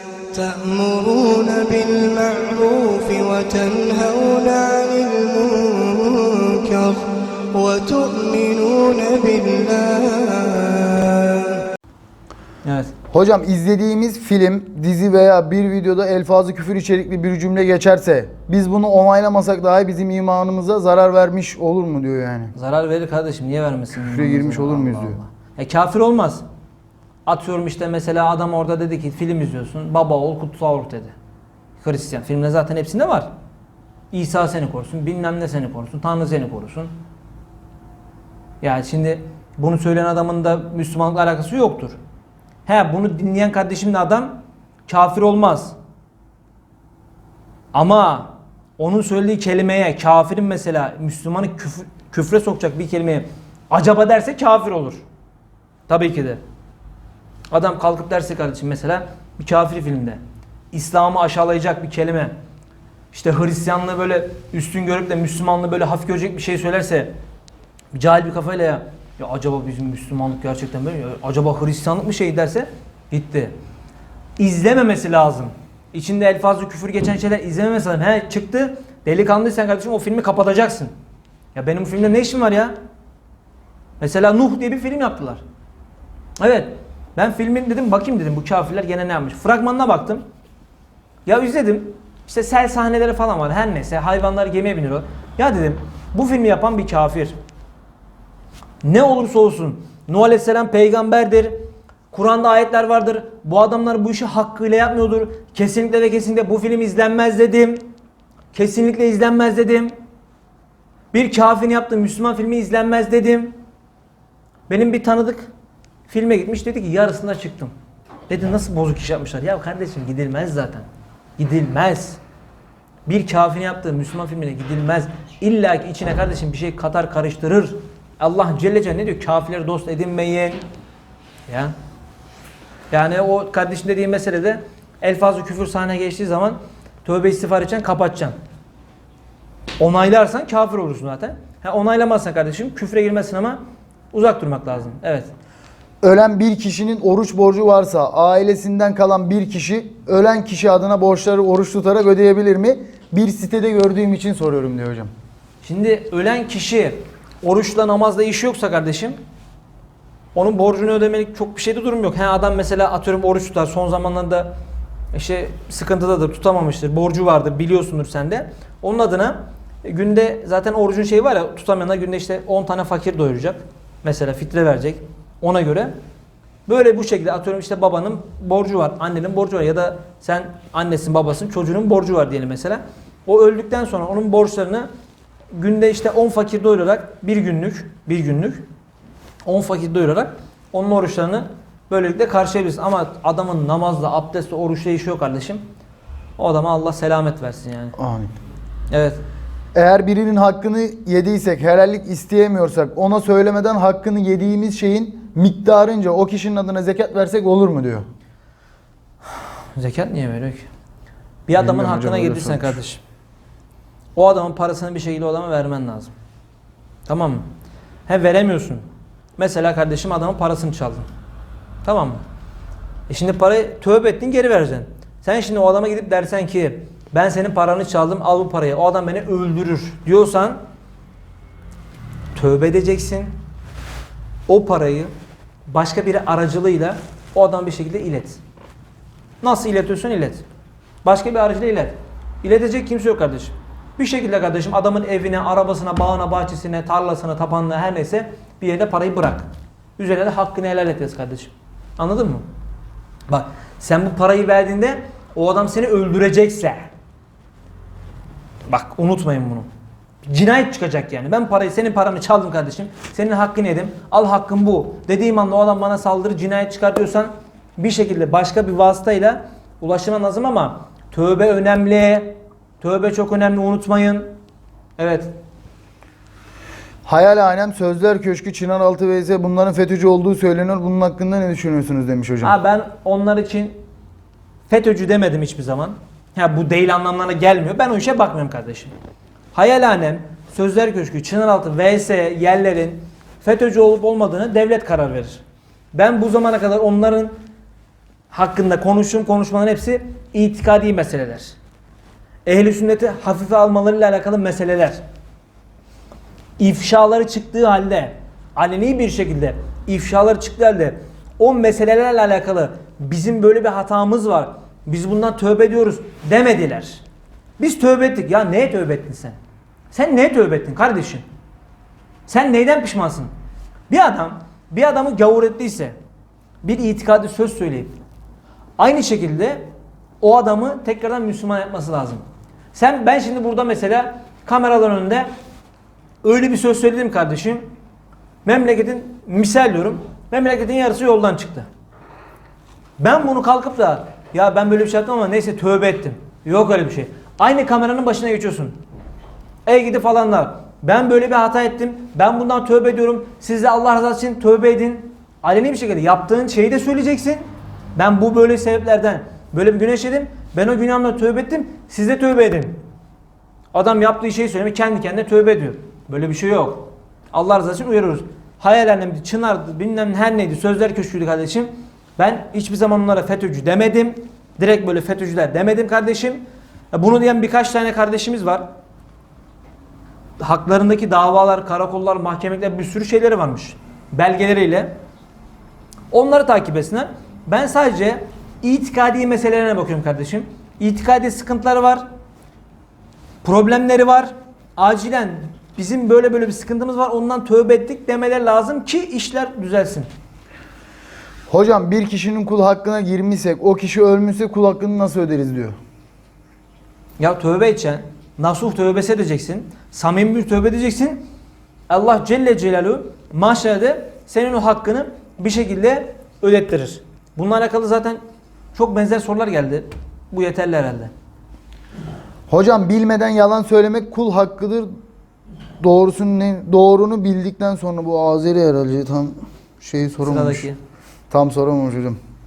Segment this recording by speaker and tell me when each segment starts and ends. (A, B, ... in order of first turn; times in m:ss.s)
0:00.3-0:11.6 A
0:12.6-0:12.9 B
0:13.1-0:22.5 C
0:22.5-0:26.4 B
0:24.0-0:25.2 C
0:27.2-0:31.1 B
0:31.8-0:33.3 B
0:34.1-0:36.9 B
0:38.6-0:42.0 B
0:42.6-0:45.8 B
0:47.7-0:55.0 B
0:55.9-0:56.4 B
0:57.5-1:00.2 B
1:00.7-1:02.3 B
1:03.1-1:07.1 B
1:07.9-1:13.5 B
1:14.4-1:20.9 B
1:21.5-1:22.7 B
1:24.0-1:25.4 B
1:26.4-1:30.2 B
1:31.2-1:37.3 B
1:38.8-1:41.5 B
1:42.1-1:47.9 B
1:48.5-1:49.9 B
1:51.1-1:53.6 B
1:54.7-1:55.5 B
1:56.1-1:57.7 B
1:58.3-2:00.9 B
2:01.4-2:02.2 B
2:03.0-2:10.6 B
2:11.5-2:11.7 B
2:12.9-2:18.3 B
2:19.8-2:23.6 B
2:24.1-2:25.3 B
2:26.0-2:35.1 C
2:35.6-2:39.2 B
2:40.3-2:44.5 B
2:45.1-2:55.9 B
2:56.6-3:04.9 B
3:05.5-3:08.7 B
3:09.4-3:15.6 B
3:16.4-3:18.0 B
3:18.0-3:18.3 C
3:18.9-3:19.2 B
3:19.7-3:28.0 C
3:29.3-3:30.7 B
3:31.4-3:33.0 B
3:31.6-3:32.8 C
3:34.1-3:36.1 B
3:37.1-3:37.5 B
3:38.0-3:38.8 B
3:39.4-3:41.1 B
3:41.8-3:42.2 B
3:43.1-3:50.6 B
3:52.3-3:53.4 B
3:54.5-3:55.1 B
3:55.7-3:58.4 B
3:59.4-4:00.4 B
4:01.0-4:12.4 B
4:13.3-4:16.9 B
4:18.7-4:19.7 B
4:20.2-4:34.3 B
4:35.0-4:35.3 B
4:37.0-4:42.5 C
4:42.4-4:43.8 B
4:44.7-4:48.9 B
4:49.5-4:57.3 B
4:58.3-5:01.6 B
5:02.4-5:05.0 B
5:06.6-5:17.0 B
5:17.6-5:19.4 B
5:19.9-5:21.2 B
5:22.3-5:23.3 B
5:23.9-5:26.0 B
5:26.6-5:28.0 B
5:28.8-5:29.7 B
5:30.2-5:32.2 B
5:32.7-5:35.3 B
5:36.2-5:37.7 B
5:38.4-5:41.7 B
5:43.0-5:48.8 B
5:49.6-6:02.8 B
6:03.7-6:18.6 B
6:20.4-6:24.9 B
6:26.1-6:32.0 B
6:33.4-6:40.1 B
6:41.5-6:45.8 C
6:47.2-6:51.2 B
6:51.9-6:58.2 B
6:58.7-7:01.1 B
7:02.5-7:04.9 C
7:05.8-7:10.6 C
7:10.2-7:10.8 B
7:11.3-7:12.2 C